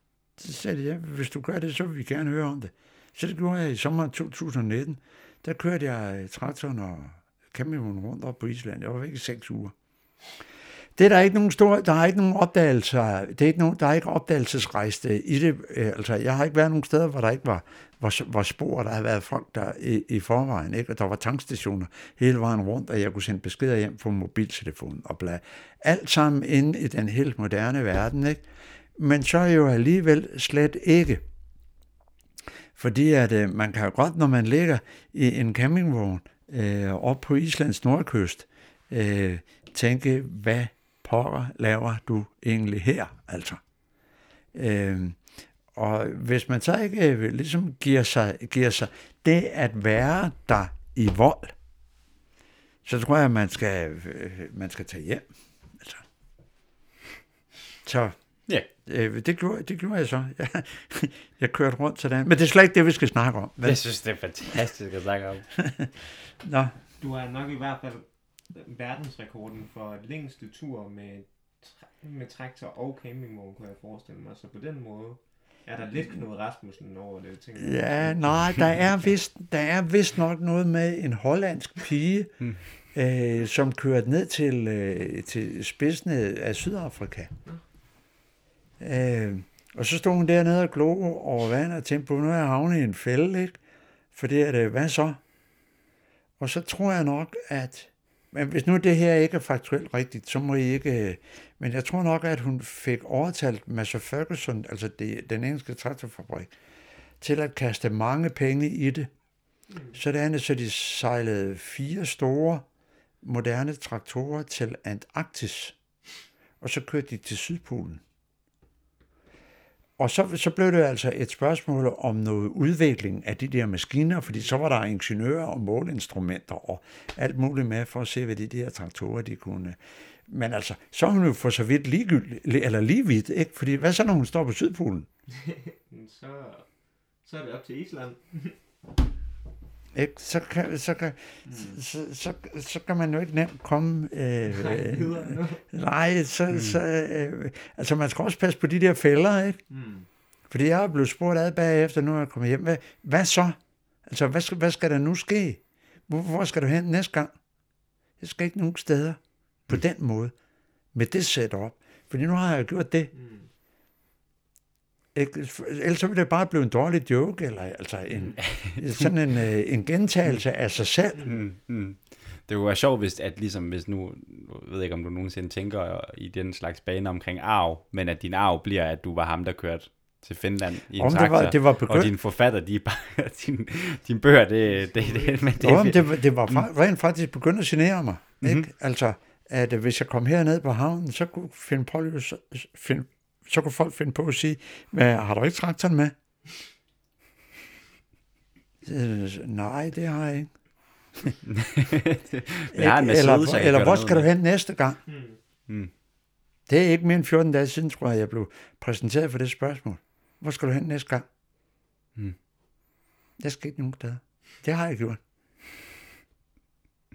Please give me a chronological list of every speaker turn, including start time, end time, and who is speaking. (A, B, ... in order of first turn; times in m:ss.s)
0:00.4-0:09.7 A
0:11.0-0:28.4 A
0:29.0-0:31.2 A
0:32.8-0:43.6 A
0:44.5-0:45.2 A
0:45.7-0:51.5 A
0:52.8-0:56.0 A
0:57.8-0:58.2 A
0:58.8-1:03.8 A
1:03.6-1:05.5 B
1:05.6-1:05.9 A
1:06.4-1:06.7 A
1:07.0-1:18.4 C
1:17.6-1:22.3 A
1:22.9-1:27.3 A
1:28.8-1:33.6 A
1:34.1-1:35.2 A
1:36.4-1:46.5 A
1:47.2-1:49.1 A
1:49.7-1:50.0 C
1:49.9-1:52.6 A
1:53.2-1:55.8 A
1:56.6-1:58.0 A
2:00.0-2:15.1 A
2:15.3-2:16.7 C
2:17.2-2:18.6 C
2:20.0-2:29.6 A
2:21.5-2:21.8 C
2:24.5-2:25.6 C
2:29.7-2:30.1 C
2:30.5-2:37.3 A
2:38.2-2:40.3 A
2:40.9-2:43.1 A
2:43.2-2:43.5 C
2:45.2-2:51.3 A
2:48.4-2:49.1 B
2:51.2-3:06.6 B
3:01.0-3:02.1 A
3:04.7-3:05.8 C
3:05.6-3:16.1 A
3:18.8-3:20.5 A
3:21.4-3:24.3 B
3:22.7-3:25.0 A
3:25.1-3:25.4 C
3:26.7-3:31.3 A
3:33.4-3:35.2 A